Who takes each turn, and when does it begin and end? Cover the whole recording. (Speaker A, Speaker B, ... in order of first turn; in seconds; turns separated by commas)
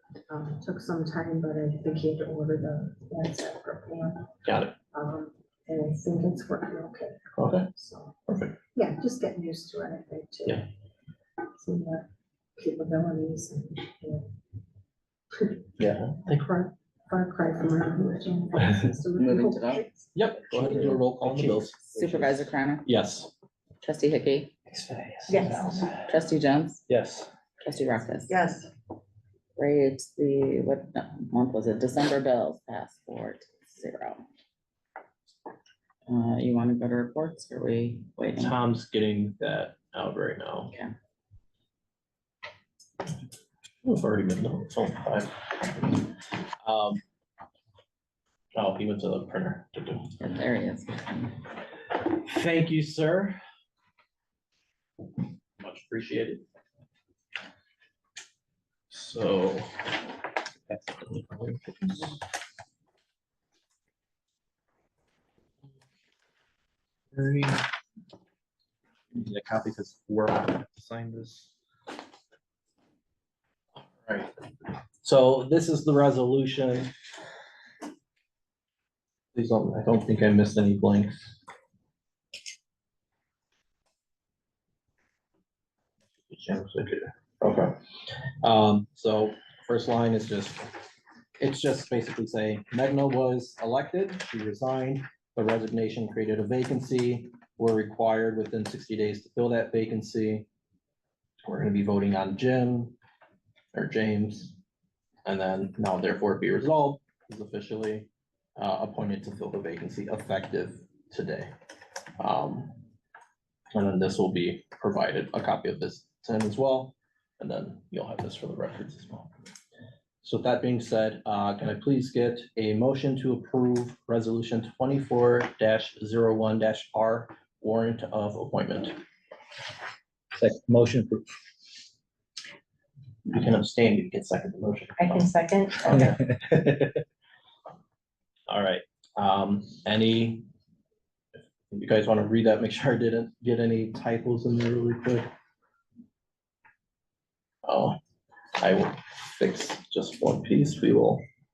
Speaker A: 0.3-4.3, Speaker B: 4.4-4.7, Speaker A: 4.9-8.2, Speaker B: 7.3-7.7, Speaker B: 8.3-8.6, Speaker A: 8.7-10.6, Speaker A: 11.5-14.3, Speaker B: 15.8-16.4, Speaker A: 16.3-20.6, Speaker C: 19.1-19.8, Speaker B: 20.1-21.8, Speaker D: 20.6-22.3, Speaker C: 21.7-22.9, Speaker B: 22.8-23.3, Speaker C: 23.8-24.5, Speaker D: 24.7-26.1, Speaker A: 25.3-25.9, Speaker C: 26.1-26.8, Speaker D: 26.9-27.3, Speaker C: 27.6-28.4, Speaker A: 28.3-28.7, Speaker C: 29.6-34.2, Speaker C: 36.1-38.6, Speaker B: 38.4-40.7, Speaker B: 43.8-46.0, Speaker B: 46.6-47.0, Speaker B: 48.5-50.1, Speaker C: 50.2-51.4, Speaker B: 52.1-53.4, Speaker B: 55.6-56.4, Speaker B: 58.9-59.9, Speaker B: 60.9-62.2, Speaker B: 67.1-67.6, Speaker B: 69.1-71.5, Speaker B: 73.9-74.3, Speaker B: 75.0-76.9, Speaker B: 79.3-81.2, Speaker B: 86.3-87.8, Speaker B: 88.4-90.7, Speaker B: 91.4-100.5, Speaker B: 101.4-102.9, Speaker B: 103.7-104.5, Speaker B: 105.2-111.5, Speaker B: 112.2-112.7, Speaker B: 113.7-119.3, Speaker B: 120.2-129.0, Speaker D: 130.3-131.3, Speaker B: 133.3-137.0, Speaker A: 135.0-136.1, Speaker B: 138.5-140.4, Speaker B: 141.7-145.3, Speaker B: 147.6-148.0, Speaker B: 148.6-151.2